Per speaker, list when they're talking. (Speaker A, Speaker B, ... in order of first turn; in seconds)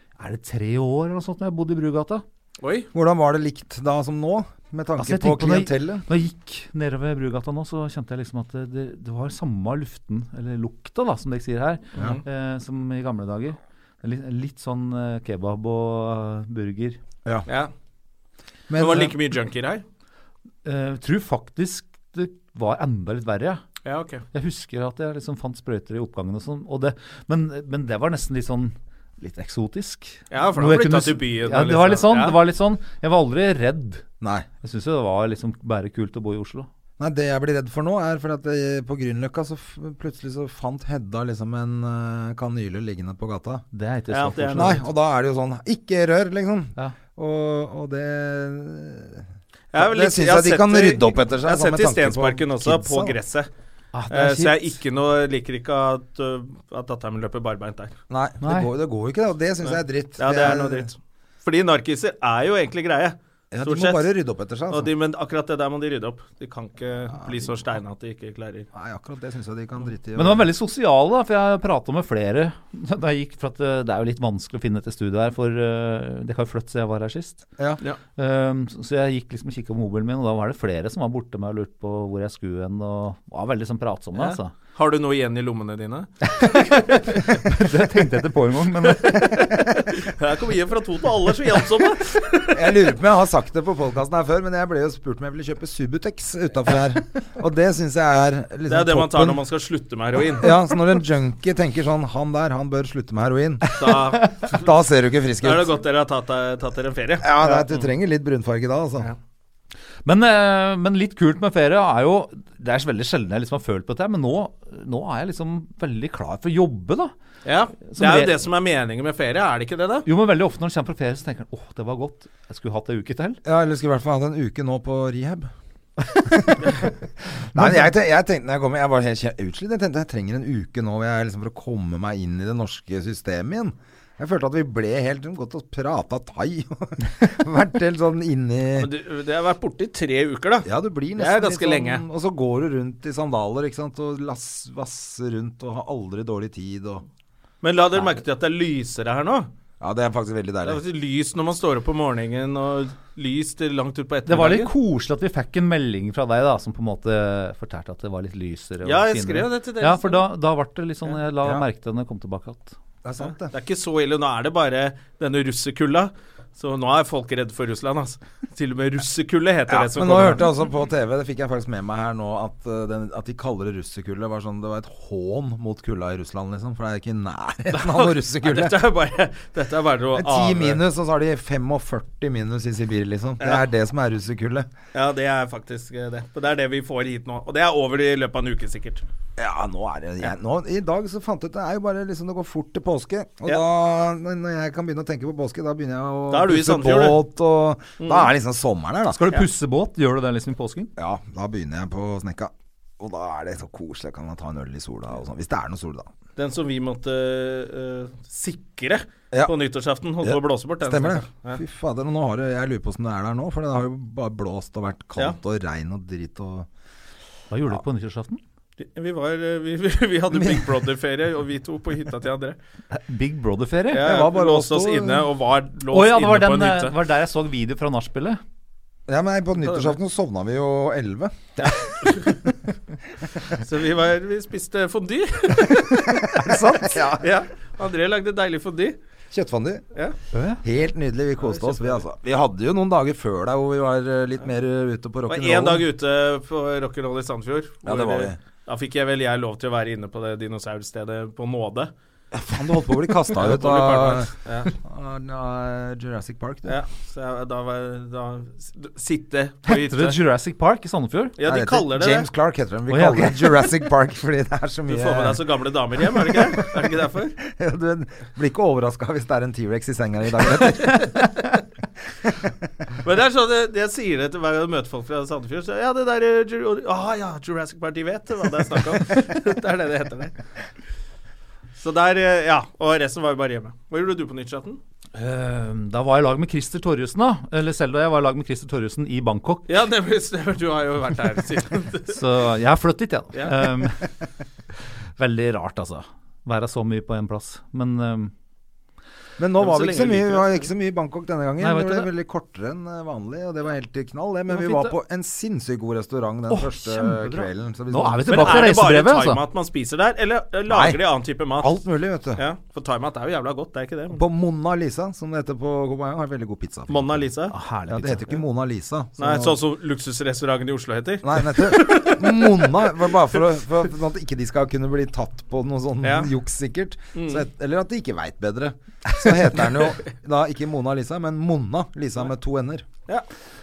Speaker A: 0.2-2.2, 5.0-17.0, 20.6-23.6, 24.3-34.0, 34.6-36.7, 43.7-44.9, 53.9-54.7, 58.4-58.7, 70.2-77.5, 78.2-84.5, 86.2-89.5, 103.8-104.2, 110.0-117.1, 117.8-118.4, 120.1-123.4, 127.6-127.8, 154.3-162.8, 199.1-200.9, 217.5-218.4, 222.9-224.1, 225.9-228.4, 236.4-236.9, 240.3-240.6, 259.7-261.3, 262.9-263.7, 285.1-289.7, 292.1-294.1, 295.2-298.3, 301.6-302.1, 306.5-309.4, 317.5-318.4
Speaker B: 2.6-2.9, 11.9-12.2, 17.5-17.7, 18.7-19.8, 23.9-24.2, 30.3-32.4, 44.1-44.8, 49.7-53.5, 54.1-57.9, 59.6-64.1, 64.7-68.7, 84.2-86.1, 89.0-92.8, 98.7-100.6, 103.8-104.6, 105.4-107.9, 117.5-120.1, 138.8-142.0, 147.6-149.5, 150.7-154.7, 158.8-160.2, 163.2-170.5, 177.7-180.8, 184.9-189.0, 196.3-197.2, 198.0-198.3, 206.4-211.6, 218.8-222.6, 223.9-226.9, 229.6-229.9, 231.6-232.4, 233.5-236.5, 237.2-239.0, 241.4-242.0, 245.3-251.9, 253.3-254.7, 256.7-260.2, 261.4-262.3, 264.9-267.4, 273.0-280.3, 281.8-284.8, 289.7-292.2, 293.3-293.6, 299.6-300.6, 308.3-311.8, 312.4-314.2, 316.9-317.6, 319.2-322.8, 326.0-326.3, 327.1-327.4
Speaker C: 2.9-6.1, 18.7-19.1, 34.2-34.5, 37.0-43.6, 44.5-53.2, 58.1-60.9, 63.5-64.9, 68.7-70.5, 92.5-99.4, 100.3-104.0, 104.5-105.8, 107.2-109.1, 123.5-125.5, 126.3-126.8, 127.5-138.9, 140.6-147.1, 149.8-150.8, 163.0-163.5, 169.7-178.8, 180.1-184.7, 189.4-199.2, 201.0-206.1, 210.2-216.7, 220.3-220.7, 224.0-225.3, 229.1-232.1, 236.4-237.3, 239.3-239.8, 240.6-245.9, 247.8-248.4, 252.3-256.8, 261.4-265.4, 266.0-271.1, 299.4-308.7, 310.7-311.0, 311.6-312.4, 314.1-317.3, 317.9-319.6, 321.2-332.9